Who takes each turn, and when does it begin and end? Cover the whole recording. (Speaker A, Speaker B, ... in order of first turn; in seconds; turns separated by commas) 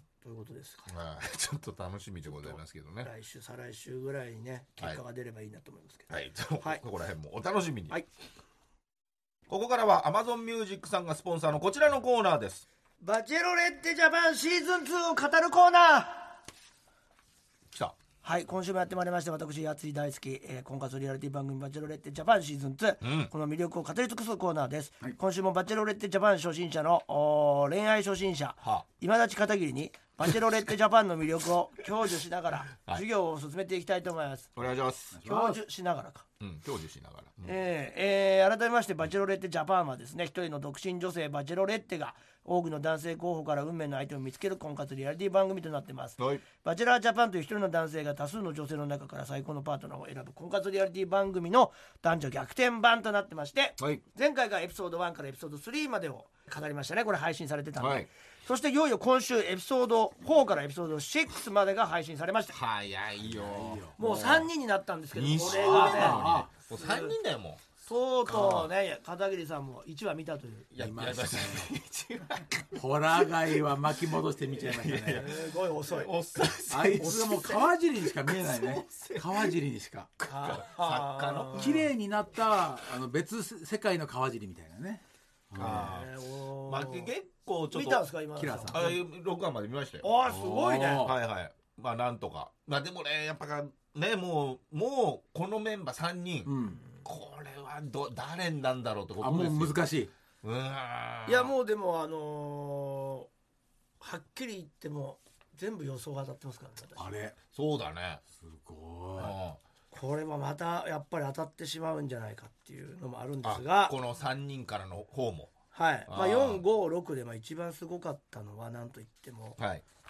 Speaker A: 0.2-0.9, Speaker B: 0.9-3.1, Speaker A: 2.4-6.8, Speaker B: 6.1-8.0, Speaker B: 9.5-12.7, Speaker A: 13.0-16.4, Speaker B: 17.7-18.0, Speaker A: 18.2-34.5, Speaker B: 23.0-23.3, Speaker B: 34.6-35.2, Speaker C: 35.1-35.6, Speaker A: 35.2-36.3, Speaker B: 36.4-37.6, Speaker A: 37.4-62.6, Speaker B: 46.2-46.4, Speaker B: 57.8-58.1, Speaker B: 62.5-64.5, Speaker C: 63.2-64.0, Speaker A: 64.0-67.1, Speaker B: 65.1-67.7, Speaker C: 65.4-66.5, Speaker A: 67.8-70.7, Speaker B: 68.2-68.7, Speaker B: 70.7-73.5, Speaker C: 70.8-71.7, Speaker C: 72.7-75.3, Speaker B: 74.6-77.6, Speaker A: 75.1-76.1, Speaker C: 76.7-80.1, Speaker B: 78.2-79.6, Speaker B: 80.2-81.9, Speaker A: 80.3-81.8, Speaker C: 81.5-86.0, Speaker B: 85.5-88.0, Speaker A: 85.6-87.1, Speaker A: 87.7-88.9, Speaker C: 88.4-89.0, Speaker B: 88.7-90.1, Speaker A: 90.0-91.1, Speaker C: 90.3-91.2, Speaker B: 91.0-99.8, Speaker C: 96.5-96.8, Speaker C: 99.2-100.1, Speaker B: 100.4-101.5, Speaker A: 101.3-103.3, Speaker A: 104.0-107.1, Speaker C: 107.0-107.4, Speaker B: 107.5-108.2, Speaker C: 108.4-109.3, Speaker B: 109.2-109.6, Speaker A: 109.9-114.0, Speaker B: 113.4-115.5, Speaker A: 115.7-119.6, Speaker B: 116.1-116.6, Speaker B: 119.6-119.8